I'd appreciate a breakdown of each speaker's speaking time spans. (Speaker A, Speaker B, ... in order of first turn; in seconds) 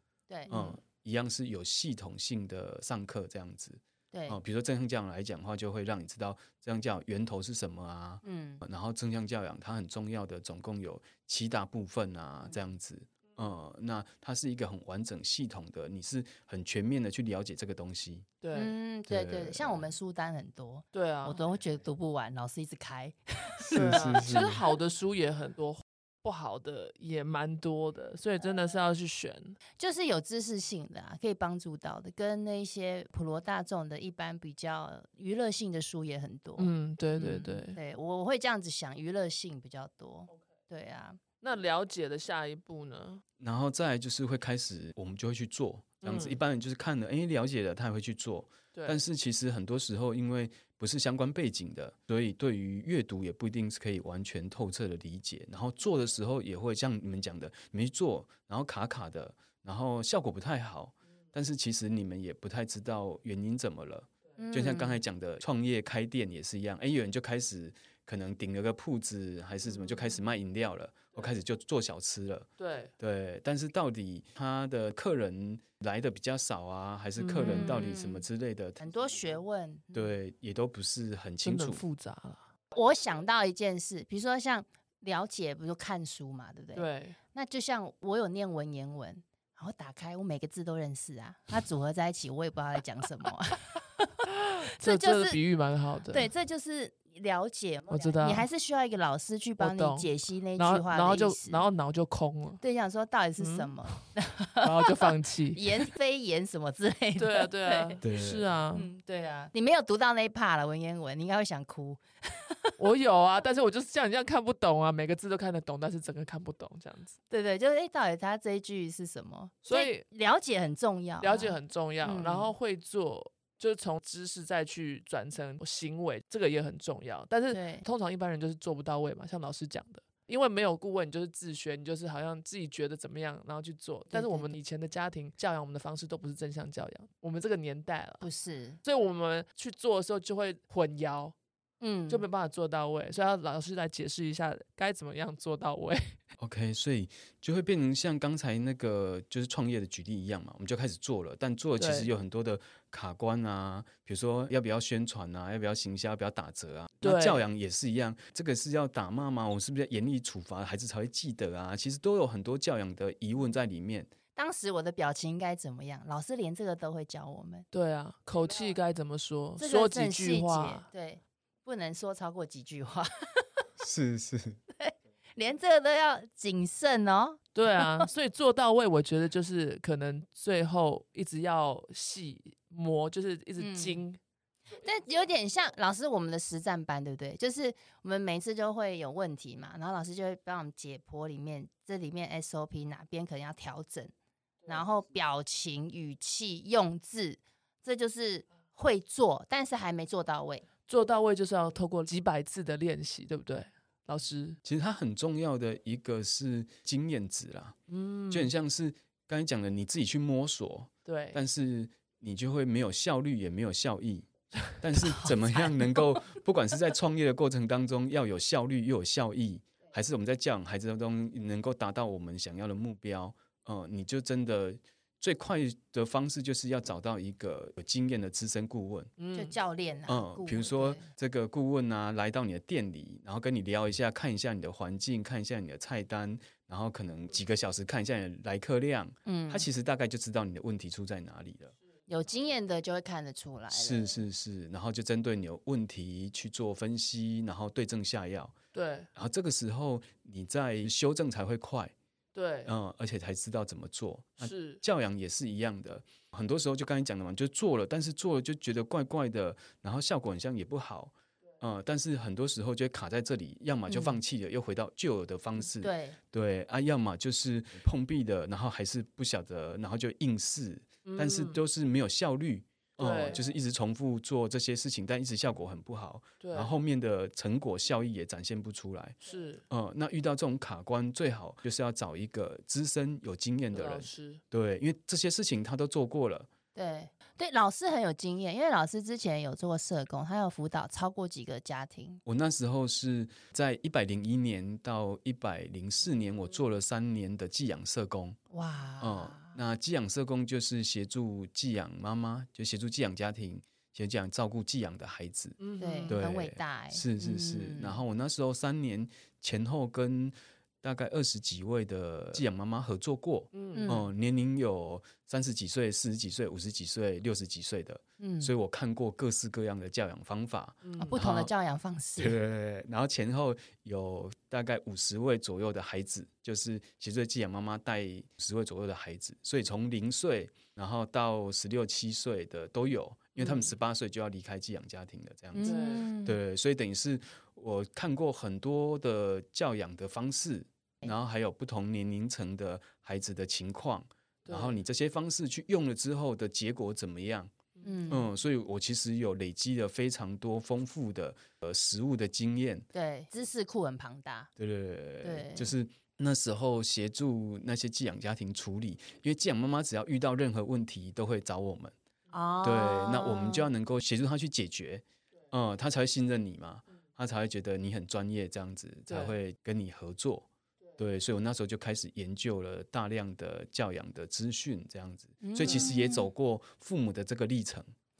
Speaker A: 0.3-0.5, 4.1-4.4, 8.2-8.6, 18.5-24.5, 29.8-41.2, 64.4-65.0, 77.4-78.2, 78.8-80.1, 82.7-94.2, 94.8-95.4, 96.1-101.6, 102.6-108.0, 108.7-112.7, 117.3-122.5, 127.5-127.8, 134.1-134.5, 138.2-138.8, 141.8-142.2, 164.3-167.7, 169.6-173.6, 174.8-178.1, 183.6-184.0, 184.8-194.1, 194.7-200.6, 215.0-216.0, 229.3-231.1, 239.2-239.7, 242.1-244.2, 265.8-266.2, 286.7-292.2, 298.5-299.6, 305.8-308.0, 313.7-314.1, 318.2-318.5, 321.0-322.4, 333.4-333.6, 335.5-336.4, 347.8-348.3, 352.9-354.5, 355.2-355.7, 362.3-363.7, 375.4-376.3
Speaker B: 0.5-0.8, 18.4-18.7, 20.9-21.4, 23.7-29.6, 36.6-37.8, 41.4-43.2, 46.0-46.4, 48.7-49.0, 72.6-72.9, 77.2-77.9, 81.4-82.5, 86.7-87.2, 94.3-96.3, 97.9-98.5, 99.6-102.6, 103.4-103.7, 104.6-105.7, 107.2-108.9, 112.8-117.1, 119.6-120.0, 121.2-138.2, 138.8-141.3, 142.1-146.2, 151.8-152.1, 157.0-157.4, 167.7-170.8, 177.5-184.2, 200.9-204.6, 207.9-208.5, 211.1-211.4, 229.2-229.5, 248.7-249.1, 252.3-252.7, 254.4-254.8, 271.0-271.6, 273.0-273.4, 276.4-276.7, 279.2-279.6, 283.7-284.4, 305.6-306.1, 313.5-314.0, 320.8-321.2, 335.6-336.1, 344.4-344.8, 347.8-348.2, 369.1-369.4, 375.6-375.9
Speaker C: 0.5-18.3, 19.1-19.9, 23.7-24.6, 43.4-72.5, 73.0-78.9, 79.9-81.8, 108.0-108.5, 146.4-164.1, 173.8-174.6, 204.6-207.8, 208.3-229.1, 230.1-241.7, 243.7-248.6, 249.1-251.9, 252.6-279.2, 279.7-286.5, 292.2-298.4, 299.0-321.5, 322.2-347.5, 348.1-352.9, 354.6-361.9, 362.6-377.9